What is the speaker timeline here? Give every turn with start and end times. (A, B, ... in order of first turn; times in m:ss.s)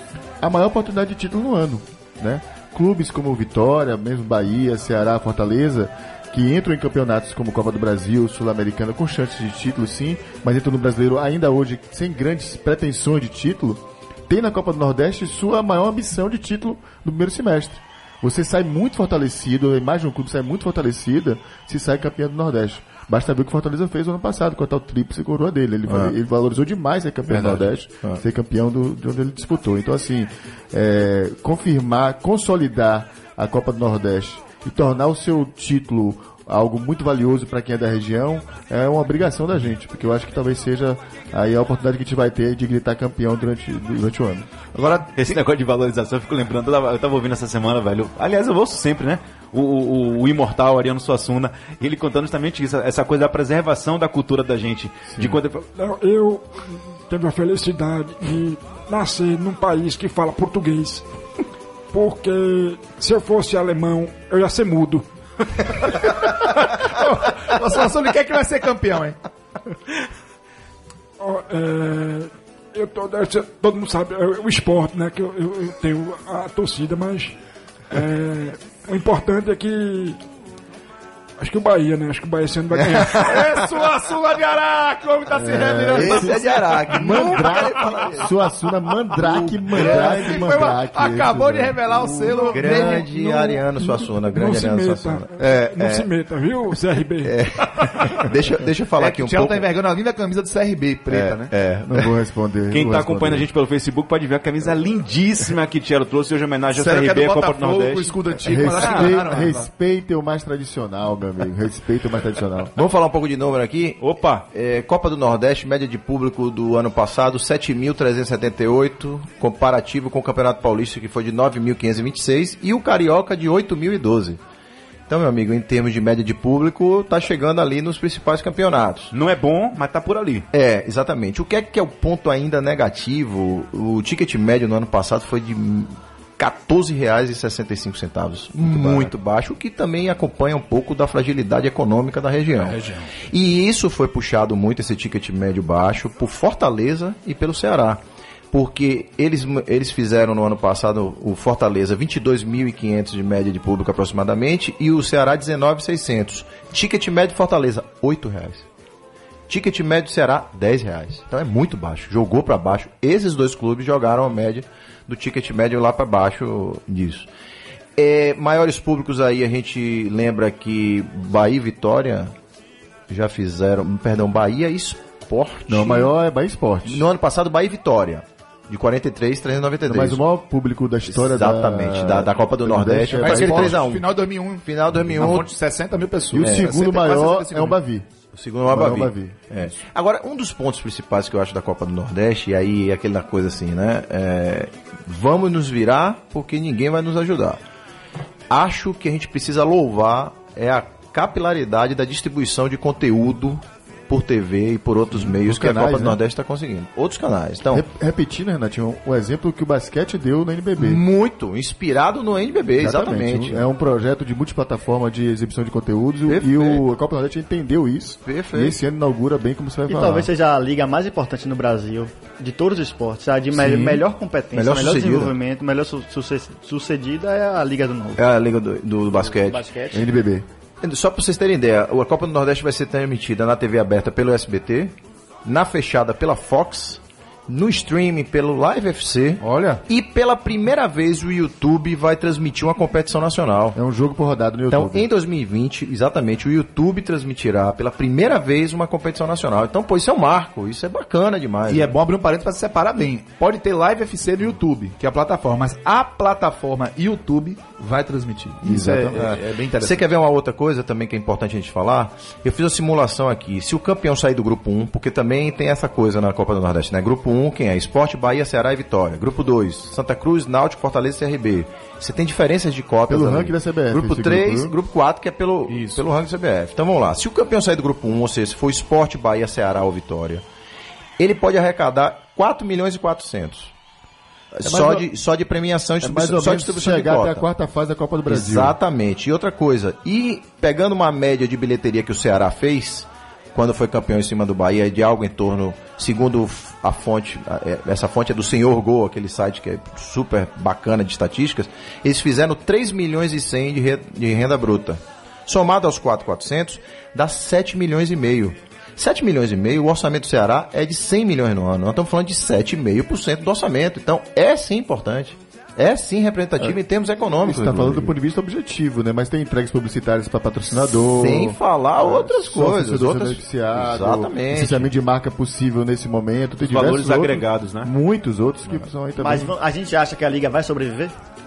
0:00.4-0:44.5 A
0:25.9-0:26.1 B
0:27.3-0:28.2 B
0:44.7-0:45.4 C
0:45.2-0:55.7 D
0:55.8-1:01.0 E
1:01.9-1:06.4 E
1:06.9-1:09.2 C
1:11.2-1:17.4 E
1:17.9-1:20.2 E
1:21.4-1:23.5 E
1:23.1-1:27.8 C
1:25.3-1:33.6 A
1:25.9-1:28.3 B
1:29.2-1:30.6 B
1:29.7-1:33.0 C
1:32.5-1:36.1 B
1:33.8-1:38.2 E
1:36.7-1:39.7 B
1:39.0-1:41.5 C
1:41.1-1:42.1 B
1:41.8-1:43.5 A
1:42.7-1:49.2 D
1:46.7-1:49.7 C
1:48.4-1:52.7 A
1:52.8-2:04.4 B
1:54.0-1:54.5 D
2:05.1-2:09.1 B
2:09.1-2:10.5 D
2:10.5-2:38.7 B
2:22.6-2:23.1 C
2:39.5-2:47.3 B
2:48.0-2:52.3 B
2:53.1-2:56.1 B
2:55.7-2:57.1 A
2:56.8-3:00.2 B
2:59.9-3:03.8 A
3:01.1-3:05.5 B
3:03.2-3:07.8 C
3:06.3-3:08.1 A
3:06.4-3:06.8 B
3:08.3-3:17.6 B
3:08.7-3:09.7 A
3:18.5-3:27.9 B
3:25.1-3:26.2 A
3:27.7-3:31.0 A
3:30.8-3:33.6 B
3:32.8-3:40.3 A
3:36.3-3:36.8 B
3:38.2-3:38.8 B
3:39.9-3:48.2 F
3:43.6-3:44.0 B
3:44.5-3:45.3 B
3:48.2-3:49.6 B
3:49.1-3:50.1 F
3:49.9-3:50.5 A
3:50.8-3:54.9 B
3:55.4-4:03.8 B
3:59.5-3:59.8 C
4:03.8-4:05.1 A
4:04.7-4:11.9 B
4:11.7-4:20.0 C
4:18.6-4:19.2 A
4:18.7-4:40.4 B
4:33.1-4:34.7 A
4:35.7-4:36.0 C
4:41.2-4:43.7 B
4:44.6-4:47.4 B
4:44.6-4:45.1 A
4:46.0-4:48.8 A
4:48.3-5:18.1 B
5:17.4-5:29.6 A
5:21.0-5:24.9 B
5:26.6-5:27.9 D
5:29.2-5:31.1 F